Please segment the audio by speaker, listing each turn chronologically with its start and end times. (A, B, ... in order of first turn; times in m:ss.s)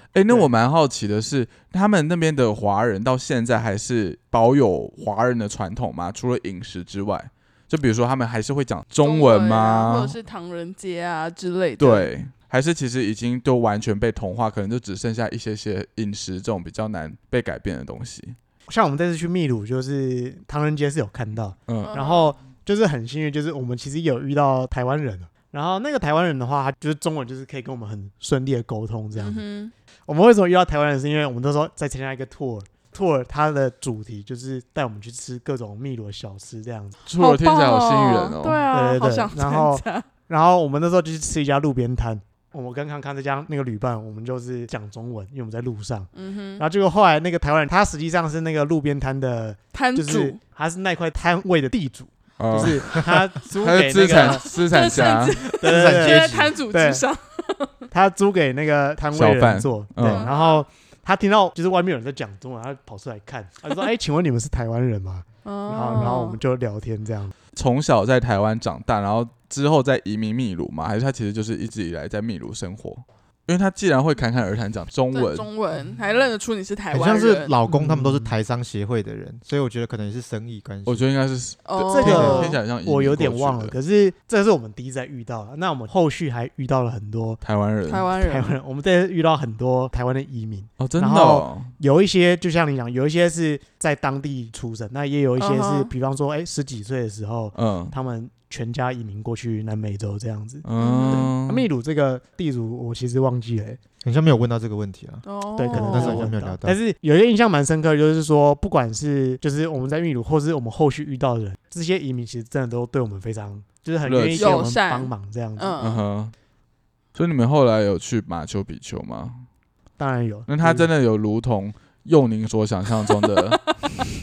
0:00.1-0:10.1 A
0:09.0-0:12.1 B
0:11.8-0:18.4 A
0:18.7-0:29.4 C
0:21.7-0:21.9 A
0:21.8-0:22.3 B
0:29.2-0:29.7 B
0:30.1-0:37.0 C
0:37.0-0:38.6 A
0:37.2-0:40.1 B
0:38.7-0:54.5 C
0:46.1-0:46.6 B
0:49.7-0:50.4 B
0:52.4-0:55.4 A
0:54.6-0:57.8 B
0:55.6-0:57.0 C
0:55.6-0:56.6 D
0:57.9-1:07.3 C
0:59.1-1:00.3 A
1:00.0-1:00.6 B
1:05.4-1:06.4 B
1:07.6-1:15.4 A
1:15.1-1:17.5 B
1:16.9-1:21.0 D
1:17.7-1:18.3 C
1:20.8-1:23.7 A
1:21.6-1:22.6 B
1:21.9-1:27.4 C
1:27.4-1:28.1 A
1:27.9-1:28.5 B
1:28.2-1:43.8 C
1:30.8-1:31.7 A
1:35.4-1:35.9 B
1:37.5-1:37.9 A
1:40.6-1:41.6 A
1:40.8-1:41.3 B
1:44.0-1:46.8 D
1:45.2-1:46.2 B
1:45.5-1:55.8 C
1:54.0-1:54.7 A
1:54.3-1:56.0 B
1:55.8-1:56.3 A
1:57.1-1:59.4 A
2:00.0-2:00.9 C
2:00.5-2:03.8 A